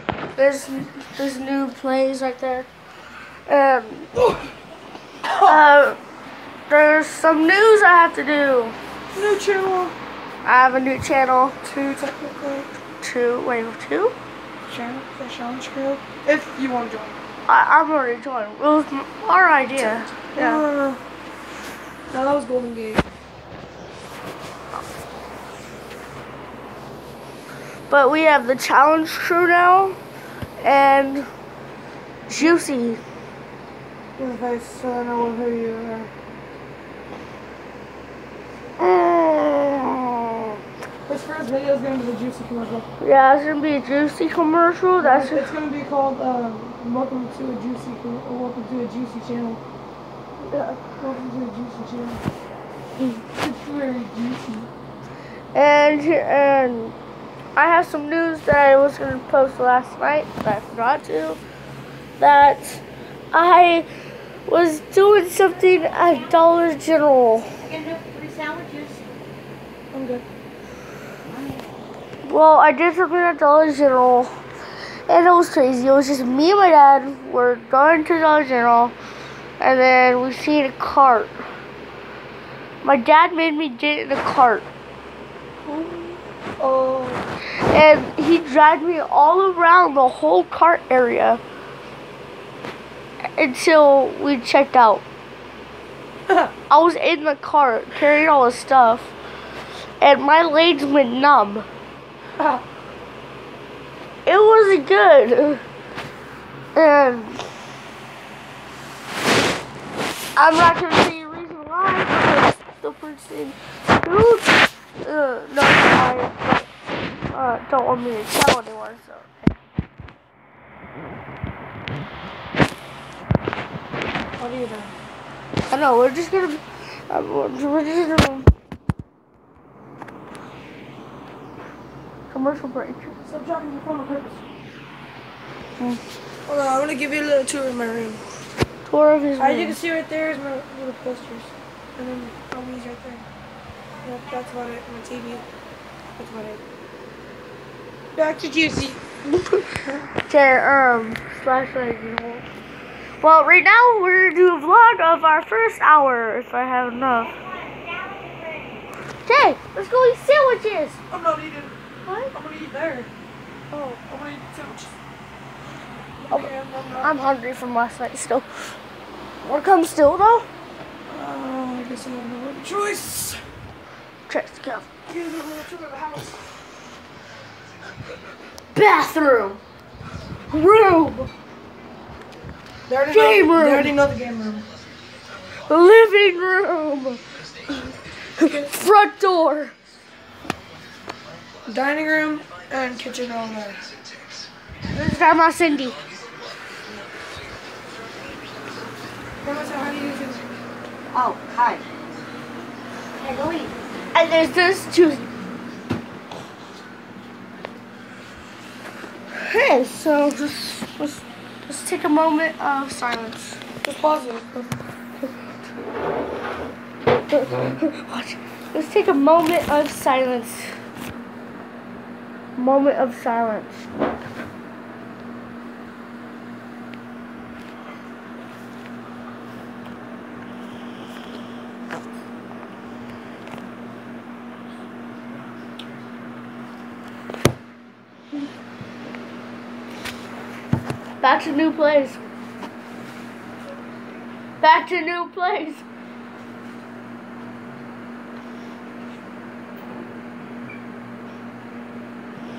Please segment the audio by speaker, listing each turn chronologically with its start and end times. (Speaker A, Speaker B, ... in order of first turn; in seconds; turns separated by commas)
Speaker A: 0.3-2.7, Speaker A: 3.5-4.1, Speaker A: 5.3-6.0, Speaker A: 6.7-8.8, Speaker B: 9.1-9.9, Speaker A: 10.4-11.6, Speaker B: 11.6-12.7, Speaker A: 13.0-14.1, Speaker B: 14.7-17.2, Speaker A: 17.5-20.6, Speaker B: 19.8-21.0, Speaker B: 22.1-23.1, Speaker A: 27.9-30.0, Speaker A: 30.6-31.3, Speaker A: 32.3-33.0, Speaker B: 34.2-36.1, Speaker A: 38.8-40.6, Speaker B: 41.0-42.9, Speaker A: 43.0-45.5, Speaker B: 45.0-49.6, Speaker A: 50.4-50.8, Speaker B: 51.0-52.2, Speaker B: 53.3-54.7, Speaker A: 55.5-57.0, Speaker A: 57.5-61.4, Speaker A: 62.2-63.9, Speaker A: 64.5-67.5, Speaker C: 67.6-69.1, Speaker B: 69.9-70.2, Speaker A: 72.2-74.3, Speaker A: 75.1-79.0, Speaker A: 79.6-81.4, Speaker A: 82.8-84.7, Speaker B: 85.7-87.3, Speaker A: 87.6-91.4, Speaker A: 93.3-95.0, Speaker A: 96.7-99.1, Speaker A: 100.0-101.7, Speaker A: 104.2-105.6, Speaker A: 106.7-107.4, Speaker A: 110.3-116.7, Speaker A: 117.3-119.5, Speaker B: 124.4-125.0, Speaker A: 125.7-128.5, Speaker A: 132.3-133.2, Speaker B: 133.2-134.4, Speaker B: 136.4-138.2, Speaker A: 138.8-139.8, Speaker B: 139.4-143.2, Speaker B: 144.0-145.4, Speaker B: 146.2-146.6, Speaker B: 148.1-149.0, Speaker A: 150.2-152.4, Speaker A: 153.2-157.3, Speaker C: 157.5-158.8, Speaker A: 159.2-161.0, Speaker B: 161.1-161.7, Speaker A: 162.0-162.3, Speaker B: 162.3-163.1, Speaker A: 163.7-164.0, Speaker B: 164.1-164.9, Speaker B: 166.2-167.1, Speaker A: 166.3-168.5, Speaker A: 169.4-170.5, Speaker B: 171.1-173.4, Speaker A: 174.3-174.9, Speaker B: 175.1-176.4, Speaker A: 178.7-179.6, Speaker A: 180.5-181.3, Speaker B: 182.9-184.7, Speaker A: 183.1-183.9, Speaker A: 185.6-187.2, Speaker A: 188.4-189.8, Speaker B: 191.7-193.8, Speaker A: 194.9-196.0, Speaker B: 199.4-200.4, Speaker C: 201.1-201.8, Speaker C: 203.2-203.7, Speaker A: 204.1-205.3, Speaker A: 209.3-213.6, Speaker B: 213.8-214.7, Speaker A: 217.3-220.7, Speaker A: 222.6-223.9, Speaker A: 241.2-242.2, Speaker A: 244.6-245.8